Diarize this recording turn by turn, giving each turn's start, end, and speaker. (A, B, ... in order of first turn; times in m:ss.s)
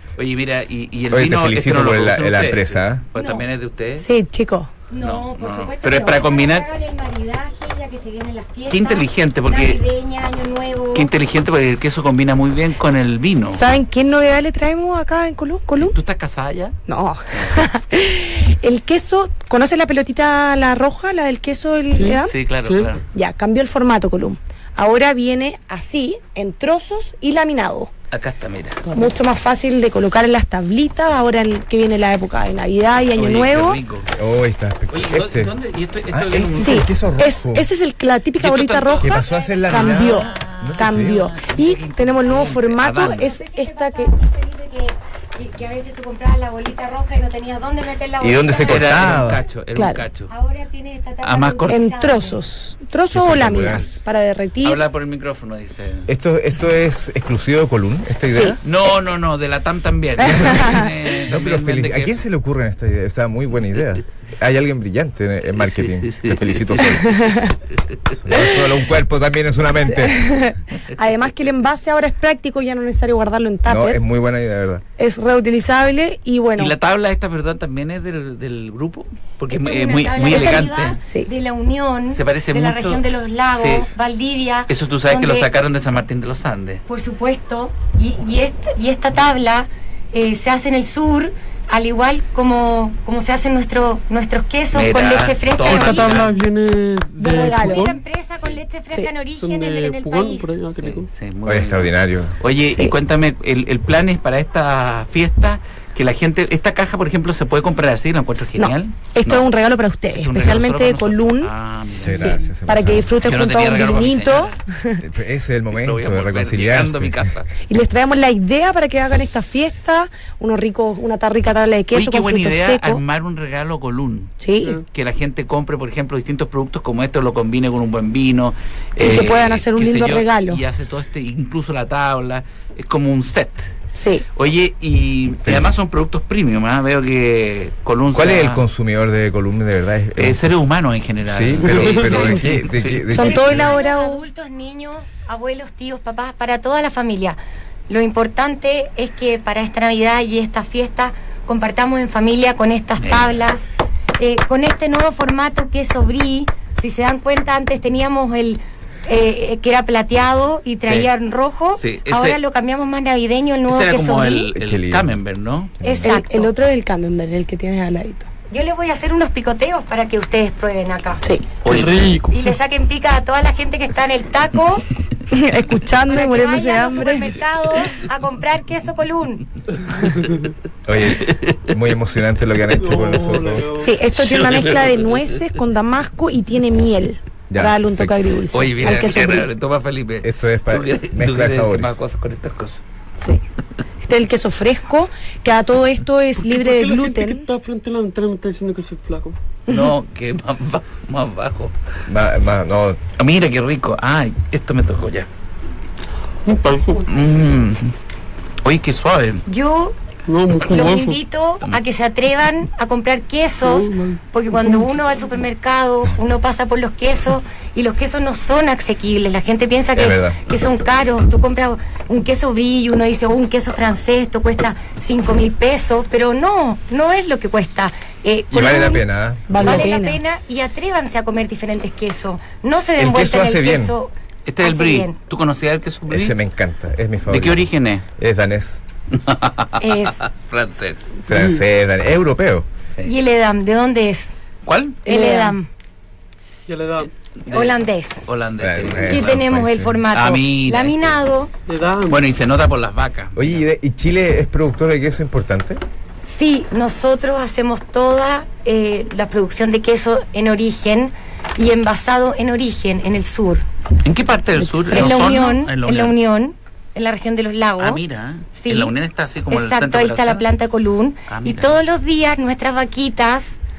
0:00.2-0:04.1 A
0:01.1-0:03.0 B
0:03.1-0:03.4 C
0:04.0-0:04.7 D
0:04.9-0:11.1 C
0:05.0-0:06.7 A
0:08.7-0:09.8 A
0:10.9-0:13.6 A
0:13.5-0:16.0 D
0:15.8-0:16.7 A
0:16.9-0:22.3 D
0:21.9-0:22.9 E
0:22.0-0:23.0 A
0:23.1-0:27.9 D
0:28.1-0:29.0 A
0:28.8-0:33.8 D
0:33.1-0:34.1 A
0:34.1-0:35.5 B
0:34.9-0:36.9 A
0:36.1-0:37.7 B
0:36.6-0:44.1 D
0:38.4-0:43.3 A
0:39.0-0:41.3 B
0:39.1-0:39.7 C
0:43.1-0:49.2 C
0:48.2-0:49.4 B
0:48.6-0:50.3 A
0:49.7-0:50.0 D
0:50.3-0:52.4 C
0:51.2-0:51.8 A
0:51.7-0:54.8 D
0:53.1-0:54.0 B
0:54.6-0:56.1 A
0:56.1-0:58.6 B
0:58.3-0:58.6 D
0:58.6-1:02.2 A
1:00.2-1:07.3 B
1:00.3-1:00.9 D
1:05.6-1:06.9 A
1:07.0-1:07.6 D
1:08.2-1:10.4 B
1:09.9-1:14.0 D
1:13.6-1:14.8 B
1:15.0-1:16.7 D
1:16.6-1:21.0 A
1:19.5-1:25.5 C
1:20.2-1:21.3 D
1:22.1-1:23.9 A
1:24.7-1:26.8 A
1:26.9-1:36.3 C
1:34.7-1:36.3 A
1:35.6-1:38.0 E
1:37.2-1:37.9 D
1:37.4-1:40.6 C
1:39.4-1:41.1 E
1:40.8-1:49.5 A
1:41.4-1:42.4 B
1:48.6-1:51.5 D
1:50.1-1:52.4 A
1:52.0-1:53.3 B
1:52.1-1:55.0 D
1:53.2-1:54.6 A
1:55.0-1:57.3 B
1:55.7-1:57.5 A
1:57.7-2:03.0 D
2:01.9-2:04.3 A
2:04.4-2:04.8 D
2:04.9-2:13.7 A
2:09.0-2:10.6 D
2:13.9-2:14.2 D
2:14.3-2:18.6 A
2:15.4-2:15.7 B
2:18.1-2:20.6 B
2:20.2-2:23.3 A
2:21.2-2:23.8 B
2:21.7-2:22.5 C
2:21.7-2:22.2 E
2:23.1-2:24.2 D
2:23.2-2:27.4 C
2:27.9-2:33.6 C
2:33.0-2:33.4 A
2:34.2-2:44.5 C
2:40.8-2:41.1 A
2:41.8-2:42.4 A
2:43.7-2:45.8 A
2:44.5-2:45.2 B
2:45.8-2:46.2 B
2:45.8-2:46.5 C
2:46.0-2:48.3 D
2:48.5-2:51.2 C
2:51.6-2:52.2 A
2:51.6-2:52.5 E
2:52.3-2:54.9 C
2:55.3-2:57.3 D
2:56.0-2:59.4 C
3:00.8-3:03.7 B
3:01.1-3:01.7 A
3:02.7-3:03.9 E
3:03.8-3:09.5 D
3:04.1-3:05.4 A
3:07.5-3:08.3 B
3:08.5-3:12.8 A
3:08.9-3:09.4 B
3:10.2-3:12.0 B
3:14.0-3:17.5 D
3:16.4-3:19.4 E
3:19.7-3:21.7 A
3:22.1-3:23.0 B
3:23.2-3:25.3 A
3:26.4-3:27.1 E
3:27.0-3:27.9 A
3:28.6-3:29.4 A
3:29.5-3:29.9 C
3:30.3-3:31.2 E
3:30.5-3:49.0 C
3:33.6-3:34.2 E
3:39.9-3:40.4 B
3:48.5-3:49.9 B
3:49.5-3:50.2 D
3:49.5-3:54.1 C
3:53.0-3:53.9 B
3:54.4-3:56.4 A
3:54.6-3:55.2 C
3:56.1-3:58.8 B
3:57.2-3:58.0 A
3:59.1-4:01.1 A
3:59.8-4:00.2 C
4:01.3-4:02.7 B
4:01.3-4:01.6 E
4:03.0-4:04.3 C
4:04.6-4:05.0 A
4:05.0-4:05.7 C
4:05.1-4:05.6 D
4:06.7-4:07.1 E
4:07.4-4:09.4 A
4:07.5-4:08.2 C
4:08.6-4:10.0 B
4:08.9-4:11.5 C
4:10.1-4:11.2 A
4:11.7-4:12.2 E
4:12.1-4:13.6 A
4:13.3-4:15.8 B
4:16.3-4:23.6 C
4:24.0-4:26.2 A
4:24.8-4:28.0 C
4:27.8-4:30.5 A
4:28.6-4:28.9 C
4:29.5-4:33.6 C
4:31.3-4:31.8 A